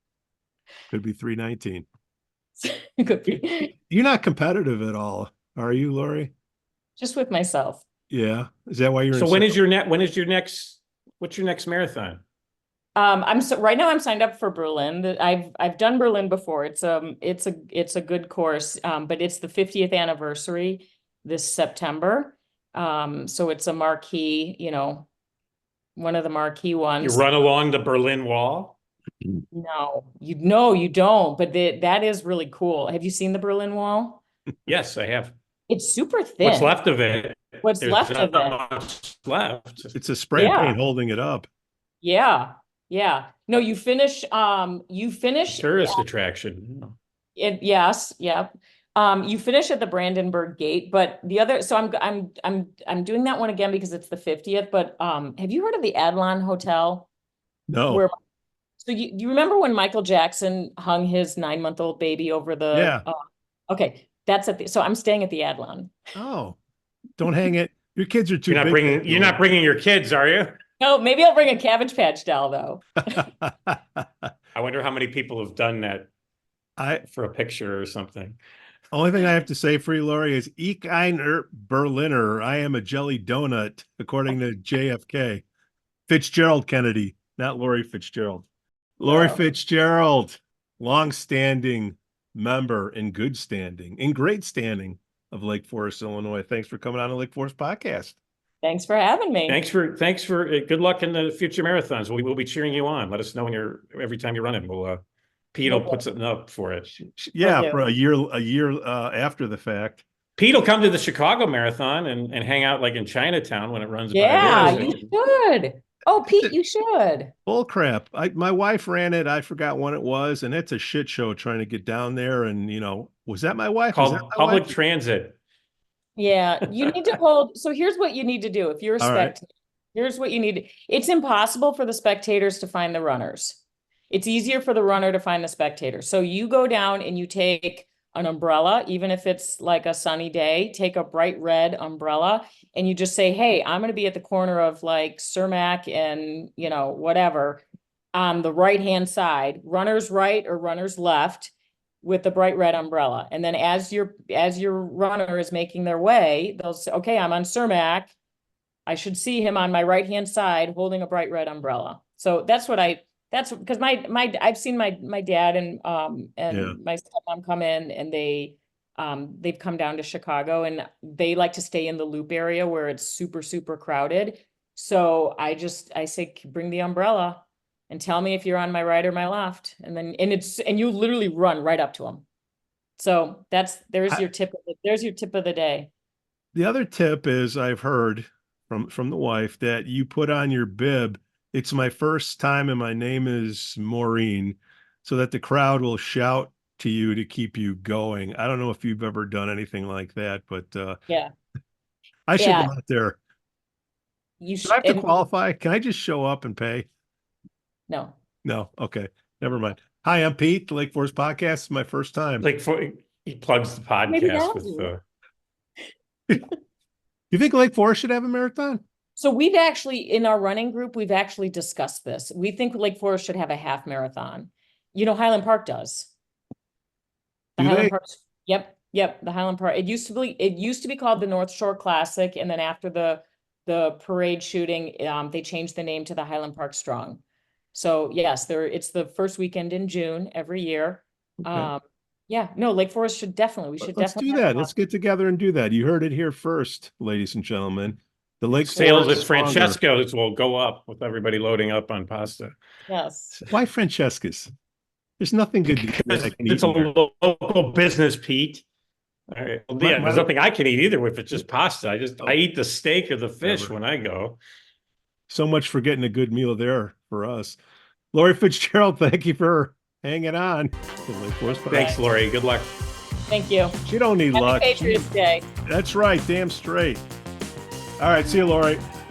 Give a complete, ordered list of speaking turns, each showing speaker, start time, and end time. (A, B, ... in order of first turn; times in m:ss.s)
0:00.9-0:01.9 A
0:02.6-0:03.7 B
0:03.9-0:06.3 A
0:07.0-0:07.8 B
0:08.1-0:09.6 A
0:09.1-0:12.2 C
0:13.0-0:25.1 B
0:26.0-0:27.2 B
0:27.0-0:28.8 C
0:29.5-0:34.2 B
0:34.7-0:35.3 C
0:35.7-0:36.8 B
0:36.4-0:39.9 C
0:37.6-0:38.6 B
0:39.9-0:41.5 A
0:40.4-0:40.8 B
0:42.0-0:46.0 B
0:45.5-0:46.9 C
0:47.4-0:57.1 B
0:57.7-0:58.0 A
0:57.9-0:58.1 B
0:58.8-1:03.2 B
1:02.7-1:03.0 A
1:03.7-1:06.0 B
1:06.1-1:06.6 A
1:07.2-1:09.4 A
1:08.5-1:10.6 C
1:10.8-1:13.3 B
1:13.1-1:14.3 A
1:14.5-1:16.1 C
1:17.0-1:18.4 C
1:18.9-1:25.4 A
1:26.1-1:28.4 A
1:29.0-1:38.2 A
1:29.0-1:29.5 B
1:38.6-1:39.6 B
1:39.5-1:45.0 C
1:45.5-1:47.0 C
1:45.7-1:46.0 B
1:47.0-1:50.0 A
1:47.4-1:47.8 B
1:50.4-1:55.0 C
1:54.1-1:57.3 B
1:54.4-1:55.0 A
1:56.2-1:56.5 A
1:57.5-2:04.8 A
2:03.9-2:05.4 C
2:06.2-2:38.1 B
2:06.8-2:07.2 C
2:09.0-2:09.3 A
2:38.8-3:02.2 B
2:46.5-2:46.8 A
3:03.0-3:05.9 B
3:06.5-3:21.0 A
3:22.3-3:23.2 A
3:22.4-3:22.7 B
3:24.4-3:25.1 B
3:24.6-3:26.9 A
3:27.9-3:28.2 B
3:28.4-3:32.4 A
3:32.4-3:35.0 C
3:34.1-3:34.9 B
3:37.3-3:38.8 A
3:39.2-3:46.1 B
3:47.6-3:57.2 B
3:47.6-3:47.9 A
3:57.7-4:04.7 B
4:01.4-4:01.7 A
4:03.8-4:09.8 A
4:08.7-4:12.5 C
4:08.8-4:09.0 B
4:12.9-4:13.4 B
4:13.4-4:14.5 A
4:15.2-4:16.9 A
4:15.7-4:18.6 C
4:19.3-4:24.4 C
4:19.8-4:20.3 A
4:23.4-4:23.7 A
4:25.3-4:27.6 A
4:28.1-4:32.0 A
4:31.7-4:32.7 C
4:31.7-4:32.0 B
4:33.3-4:33.8 B
4:33.8-4:35.1 A
4:34.3-4:35.4 B
4:35.7-4:37.0 A
4:38.0-4:38.8 A